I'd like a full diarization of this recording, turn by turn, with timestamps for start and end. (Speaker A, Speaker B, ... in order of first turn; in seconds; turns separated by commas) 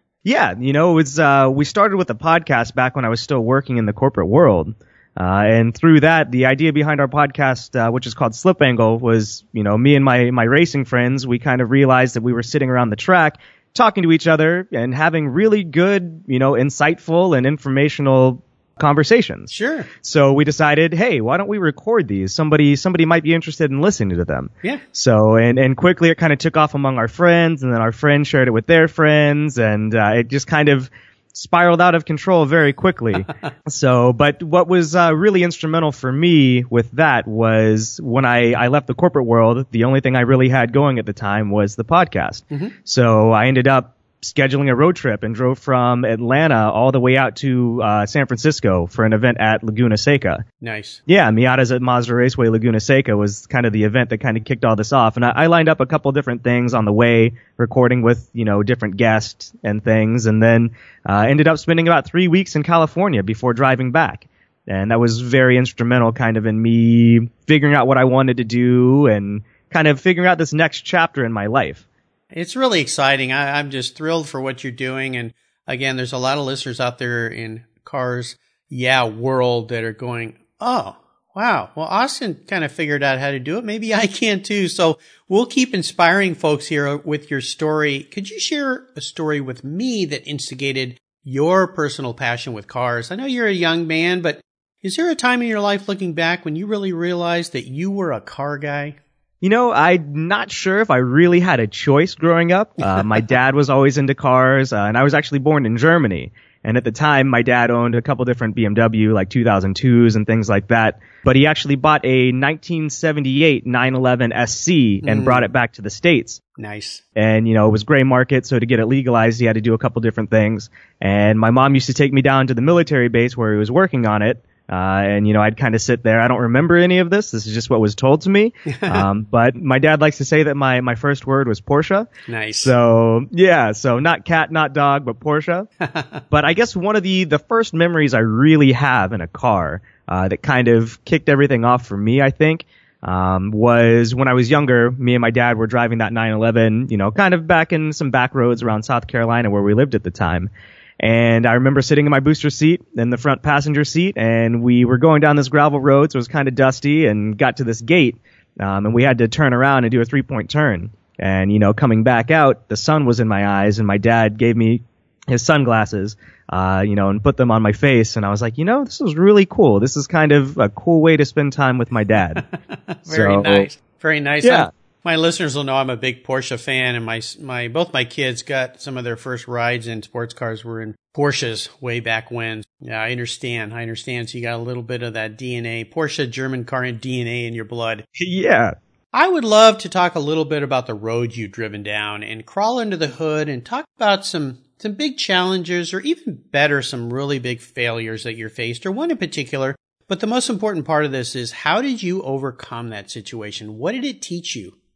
Speaker A: 0.2-19.5, Speaker B: 19.5-19.9, Speaker A: 20.0-50.4, Speaker B: 50.6-51.0, Speaker A: 51.1-71.8, Speaker B: 72.3-99.0, Speaker A: 99.4-116.4, Speaker B: 115.0-115.5, Speaker B: 116.6-117.0, Speaker A: 117.2-132.1, Speaker B: 128.7-129.1, Speaker B: 132.3-132.7, Speaker A: 132.6-135.7, Speaker B: 135.8-136.2, Speaker A: 136.3-150.5, Speaker A: 151.0-172.4, Speaker B: 172.4-188.1, Speaker A: 173.1-173.7, Speaker A: 174.4-174.7, Speaker A: 188.2-188.8, Speaker B: 189.1-204.8